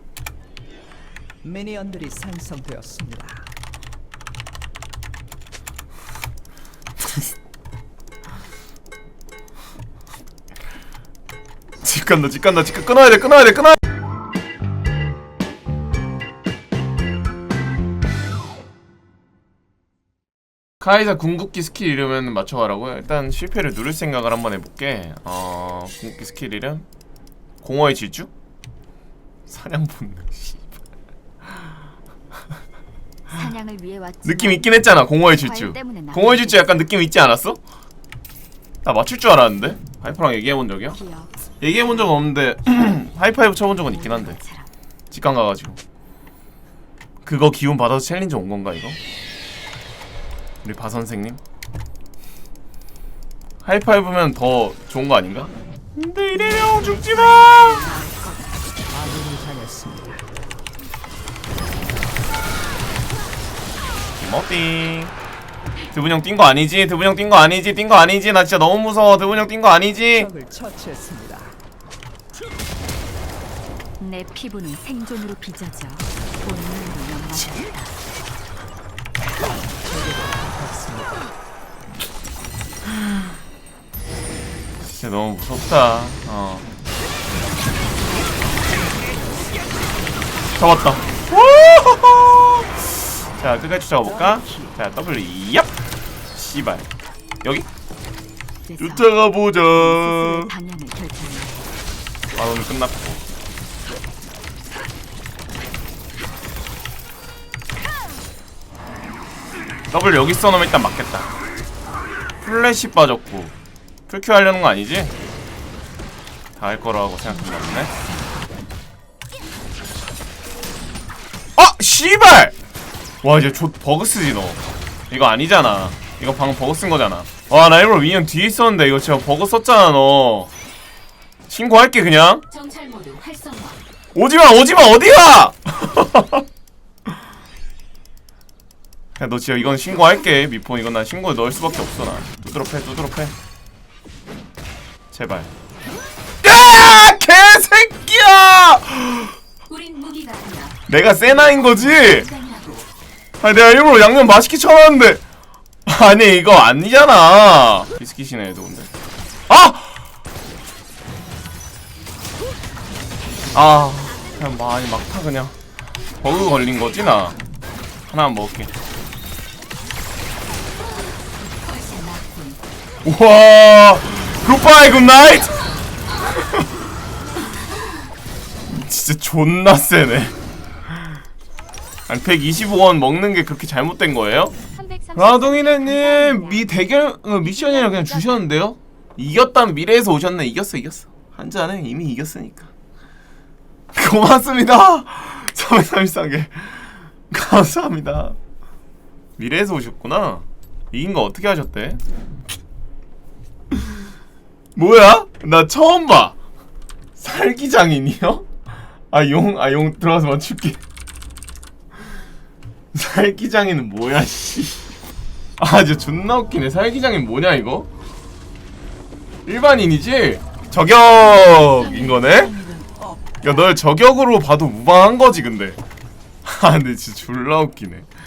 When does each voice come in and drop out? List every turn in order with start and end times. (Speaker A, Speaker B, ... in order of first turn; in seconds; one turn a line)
Speaker A: 1.4-3.5
Speaker B: 11.8-13.8
Speaker B: 20.8-26.9
Speaker B: 27.6-28.3
Speaker B: 29.5-30.7
Speaker C: 33.3-36.8
Speaker B: 34.2-37.6
Speaker B: 38.8-41.0
Speaker C: 41.0-41.3
Speaker B: 41.6-44.4
Speaker C: 44.0-44.7
Speaker B: 45.1-45.8
Speaker B: 47.2-49.0
Speaker B: 50.6-51.4
Speaker B: 53.6-58.0
Speaker C: 56.5-58.8
Speaker A: 58.9-60.2
Speaker B: 64.2-65.1
Speaker B: 65.9-70.3
Speaker A: 70.3-71.6
Speaker C: 74.0-78.0
Speaker A: 79.9-81.2
Speaker B: 84.9-86.7
Speaker B: 90.6-95.7
Speaker A: 94.3-94.7
Speaker B: 96.3-96.9
Speaker C: 98.7-99.1
Speaker B: 98.8-100.5
Speaker C: 99.8-101.6
Speaker B: 102.3-103.2
Speaker B: 109.9-111.4
Speaker B: 112.4-113.5
Speaker B: 114.1-115.1
Speaker B: 116.6-117.9
Speaker B: 121.6-122.5
Speaker B: 123.2-130.5
Speaker B: 131.5-132.4
Speaker C: 132.5-133.8
Speaker B: 134.2-136.4
Speaker B: 139.2-143.3
Speaker B: 145.1-145.5
Speaker B: 146.4-149.3
Speaker C: 149.7-152.9
Speaker B: 150.9-152.3
Speaker B: 153.4-155.2
Speaker B: 155.9-158.9
Speaker B: 159.5-160.0
Speaker B: 163.5-165.6
Speaker B: 166.2-167.4
Speaker B: 168.1-168.7
Speaker C: 171.4-172.6
Speaker B: 173.0-175.7
Speaker B: 176.2-176.7
Speaker B: 178.7-180.4
Speaker B: 182.1-184.6
Speaker C: 184.8-186.7
Speaker B: 185.1-192.7
Speaker C: 187.6-188.4
Speaker B: 193.9-198.4
Speaker B: 199.4-202.0
Speaker B: 204.8-206.4
Speaker B: 207.2-208.5
Speaker B: 209.1-210.8
Speaker B: 212.9-214.9
Speaker B: 215.6-217.9
Speaker B: 219.5-222.6
Speaker B: 223.4-225.8
Speaker B: 226.4-228.1